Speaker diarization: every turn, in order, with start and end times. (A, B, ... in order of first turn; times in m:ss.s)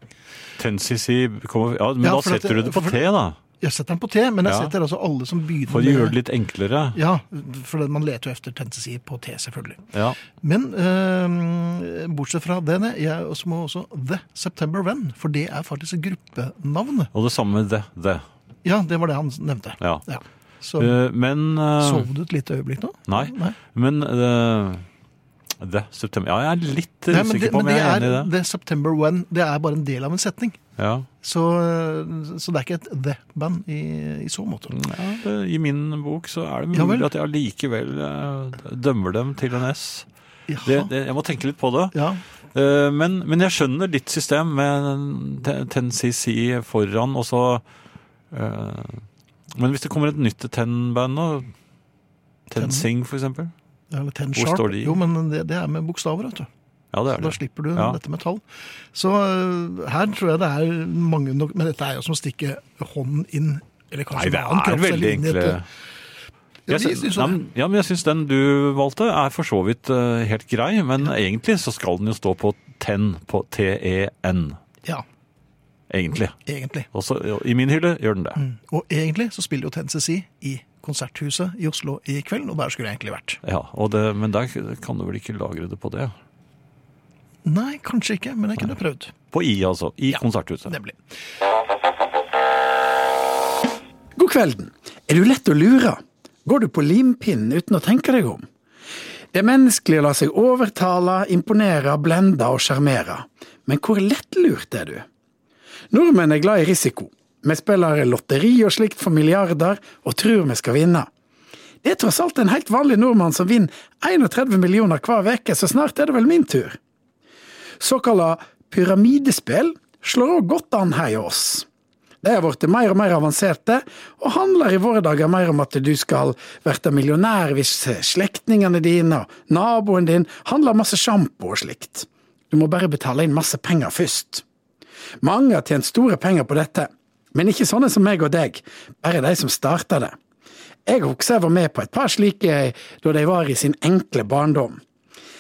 0:00.6-0:03.4 A
0:02.0-0:03.0 B
0:03.6-0:06.2 B
0:04.4-0:04.7 A
0:05.7-0:07.0 A
0:06.9-0:09.9 B
0:09.9-0:10.2 A
0:10.4-0:17.1 B
0:17.1-0:18.2 A
0:18.6-0:21.0 B
0:20.8-0:22.1 A
0:21.8-0:23.6 B
0:23.1-0:24.8 A
0:25.6-0:28.3 A
0:27.1-0:30.6 B
0:30.8-0:31.1 A
0:31.2-0:34.7 B
0:34.7-0:40.1 A
0:36.7-0:37.1 B
0:40.5-0:40.9 B
0:40.6-0:42.0 A
0:41.9-0:42.2 B
0:42.5-0:47.6 A
0:48.3-0:51.5 A
0:52.5-0:53.5 A
0:52.5-0:52.9 B
0:53.9-0:56.5 B
0:54.4-0:55.0 A
0:56.9-0:58.0 A
0:57.2-1:05.6 B
1:04.1-1:05.6 A
1:06.7-1:07.4 B
1:06.7-1:14.6 A
1:15.9-1:16.4 A
1:16.5-1:16.9 B
1:16.9-1:18.4 A
1:18.4-1:23.4 B
1:23.4-1:26.1 A
1:27.4-1:29.1 B
1:29.3-1:30.8 A
1:30.1-1:31.0 B
1:34.2-1:38.4 C
1:39.3-1:45.0 C
1:45.9-1:51.1 C
1:51.8-1:56.8 C
1:57.8-2:01.7 C
2:02.2-2:14.4 C
2:15.2-2:20.2 C
2:20.9-2:24.8 C